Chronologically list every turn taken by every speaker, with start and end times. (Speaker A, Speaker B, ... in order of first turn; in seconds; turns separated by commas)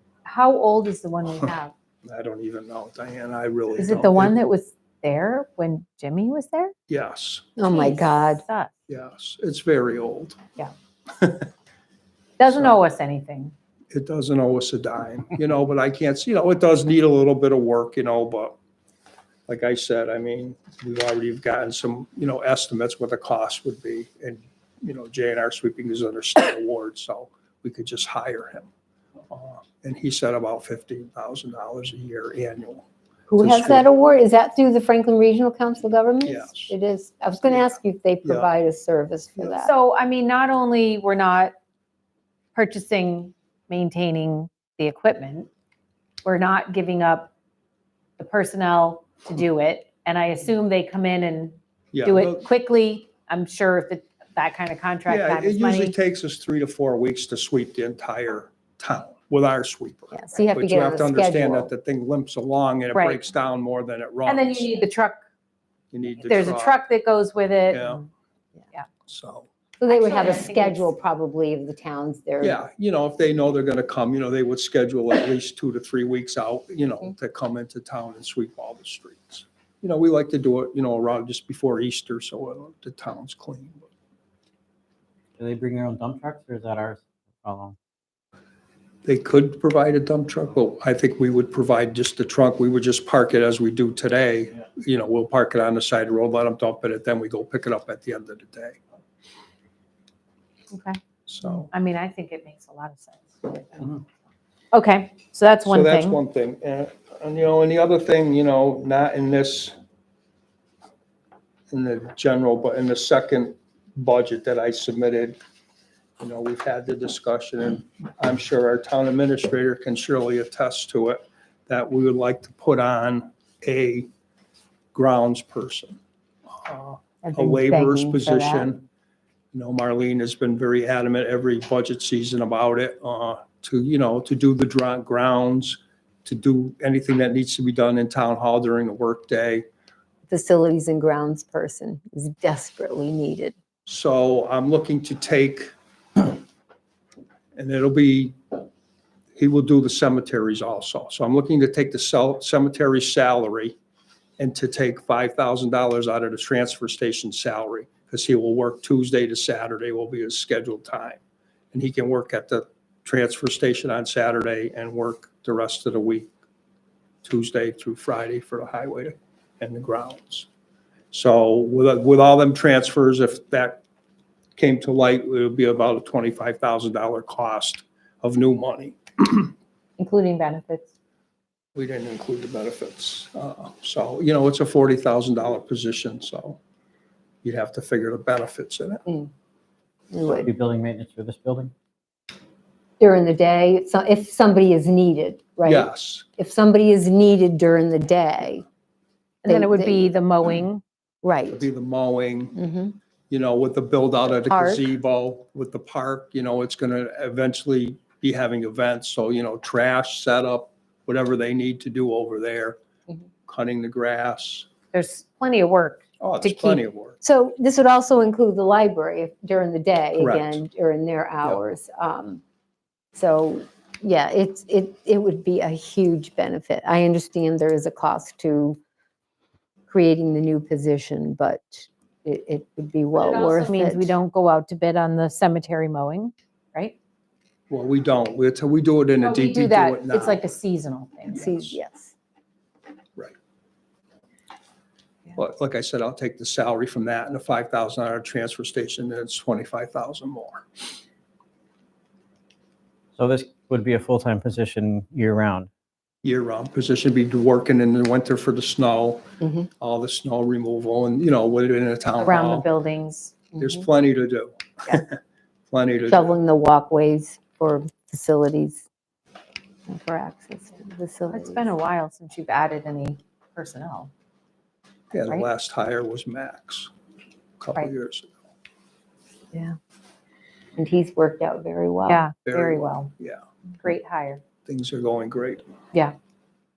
Speaker A: 0.2-1.7, Speaker B: 2.0-4.4, Speaker A: 3.8-6.7, Speaker B: 6.9-7.5, Speaker C: 7.6-8.4, Speaker A: 7.7-8.7, Speaker B: 8.9-10.4, Speaker B: 11.1-11.5, Speaker A: 12.4-13.5, Speaker B: 12.5-12.8, Speaker B: 13.9-18.6, Speaker B: 19.5-28.7, Speaker B: 29.3-32.9, Speaker C: 33.3-39.7, Speaker B: 33.4-33.9, Speaker B: 36.2-36.7, Speaker A: 39.6-41.5, Speaker A: 42.5-45.5, Speaker A: 46.2-47.3, Speaker A: 48.2-56.0, Speaker B: 51.9-52.5, Speaker B: 55.1-64.8, Speaker C: 60.1-61.7, Speaker A: 62.9-63.2, Speaker A: 64.2-65.2, Speaker B: 65.9-66.8, Speaker A: 66.2-68.0, Speaker B: 67.7-68.1, Speaker B: 69.1-69.5, Speaker C: 69.8-72.6, Speaker A: 69.9-70.9, Speaker B: 72.4-83.9, Speaker D: 85.4-87.8, Speaker B: 89.0-98.8, Speaker A: 100.7-101.0, Speaker B: 101.3-101.7, Speaker A: 101.6-104.0, Speaker A: 104.7-106.2, Speaker B: 105.7-109.8, Speaker B: 111.7-115.4, Speaker B: 116.2-124.1, Speaker B: 124.9-126.0, Speaker B: 126.5-128.8, Speaker C: 127.2-128.7, Speaker B: 129.5-139.7, Speaker C: 140.3-143.6, Speaker B: 143.9-145.7, Speaker B: 147.6-148.4, Speaker B: 149.4-153.8, Speaker B: 154.4-161.2, Speaker B: 161.7-166.3, Speaker B: 167.2-170.5, Speaker B: 171.1-173.8, Speaker B: 174.6-179.5, Speaker A: 180.0-180.9, Speaker B: 181.8-186.6, Speaker B: 187.4-189.1, Speaker C: 190.1-190.5, Speaker D: 190.4-191.7, Speaker C: 193.0-198.7, Speaker B: 195.7-196.3, Speaker A: 199.4-200.8, Speaker C: 199.5-200.0, Speaker C: 201.2-201.7, Speaker B: 201.5-202.6, Speaker C: 202.6-202.9, Speaker B: 203.3-212.8, Speaker C: 204.5-204.8, Speaker B: 213.5-214.7, Speaker A: 214.9-216.8, Speaker B: 216.2-217.2, Speaker C: 217.2-222.4, Speaker B: 220.2-220.6, Speaker C: 223.1-228.8, Speaker C: 229.9-234.1, Speaker A: 233.2-236.9, Speaker B: 237.7-240.5, Speaker A: 239.2-241.5, Speaker C: 241.3-242.1, Speaker B: 241.5-241.7, Speaker B: 245.3-250.7, Speaker D: 253.2-255.7, Speaker B: 256.2-262.7, Speaker C: 259.4-259.7, Speaker A: 262.2-263.4, Speaker B: 263.6-266.4, Speaker C: 266.1-268.9, Speaker C: 269.9-271.6, Speaker A: 271.3-274.1, Speaker B: 275.1-276.9, Speaker B: 277.6-278.4, Speaker C: 280.8-282.2, Speaker A: 282.1-283.1, Speaker B: 282.5-283.4, Speaker A: 283.8-284.4, Speaker B: 284.7-285.6